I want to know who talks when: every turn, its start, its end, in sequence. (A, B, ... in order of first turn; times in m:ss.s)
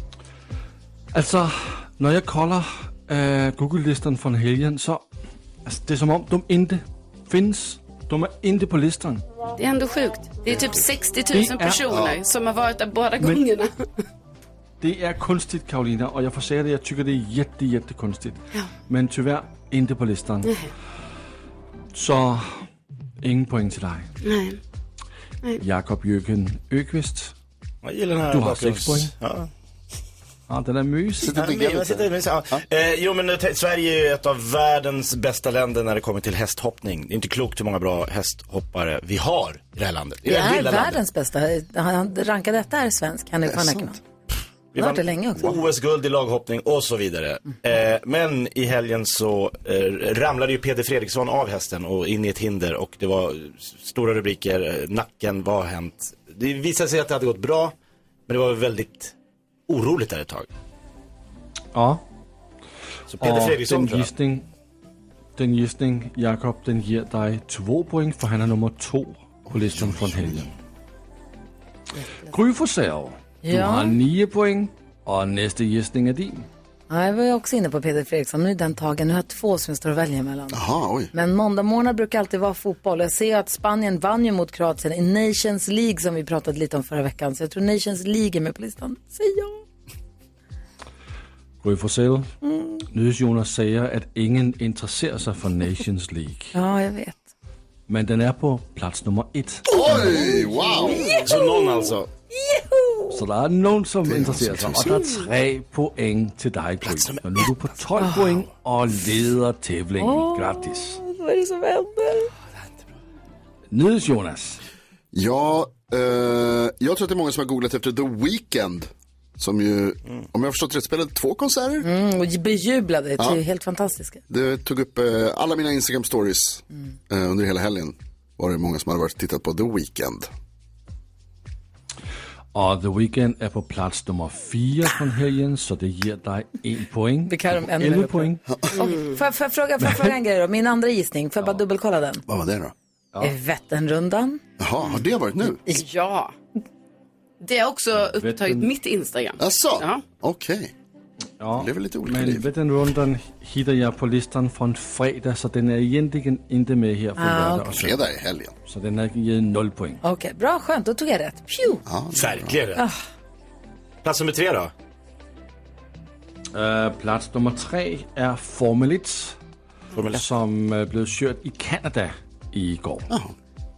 0:01.1-0:05.0 A
0:05.6-0:09.2 A
0:09.6-0:13.7 B
0:11.3-0:11.9 A
0:11.9-0:12.2 C
0:13.2-0:13.4 A
0:14.8-0:20.5 A
0:21.9-0:22.6 A
0:23.2-0:24.1 A
0:24.2-0:24.6 B
0:25.6-0:27.3 A
0:27.8-0:29.5 D
0:28.3-0:29.1 A
0:30.5-0:31.4 A
0:31.2-0:32.6 C
0:31.3-0:41.0 D
0:40.2-0:44.0 E
0:43.5-0:44.0 C
0:44.7-0:57.7 D
0:44.8-0:45.6 E
0:58.3-0:59.1 D
0:59.7-1:00.5 D
1:01.7-1:02.0 A
1:03.1-1:04.4 A
1:03.2-1:04.1 D
1:05.4-1:10.5 A
1:09.5-1:10.5 C
1:12.3-1:16.4 A
1:13.4-1:14.0 E
1:16.9-1:29.6 E
1:20.5-1:21.1 C
1:31.6-1:32.3 A
1:32.4-1:32.8 E
1:32.9-1:36.5 A
1:36.5-1:37.3 E
1:37.9-1:40.3 A
1:39.7-1:41.1 C
1:39.8-1:43.2 E
1:41.0-1:42.1 D
1:43.1-1:51.0 A
1:44.0-1:45.0 C
1:44.9-1:45.3 B
1:46.8-1:47.5 D
1:48.0-1:48.3 E
1:50.0-1:52.3 E
1:53.7-1:54.6 A
1:55.1-2:01.9 C
2:01.8-2:04.2 E
2:04.3-2:10.3 C
2:12.5-2:18.4 A
2:17.3-2:22.2 E
2:18.7-2:19.2 B
2:22.3-2:22.7 C
2:23.2-2:24.4 E
2:24.6-2:25.6 C
2:25.7-2:26.3 B
2:27.4-2:30.0 B
2:28.0-2:28.7 A
2:29.4-2:30.7 C
2:31.4-2:38.0 A
2:31.6-2:32.4 C
2:37.2-2:37.7 E
2:37.7-2:38.5 C
2:38.7-2:40.0 A
2:40.0-2:41.8 E
2:41.8-2:42.6 C
2:42.1-2:42.8 D
2:44.0-2:44.7 D
2:46.5-2:49.4 A
2:49.9-2:50.2 D
2:50.1-2:53.1 A
2:53.1-2:53.3 C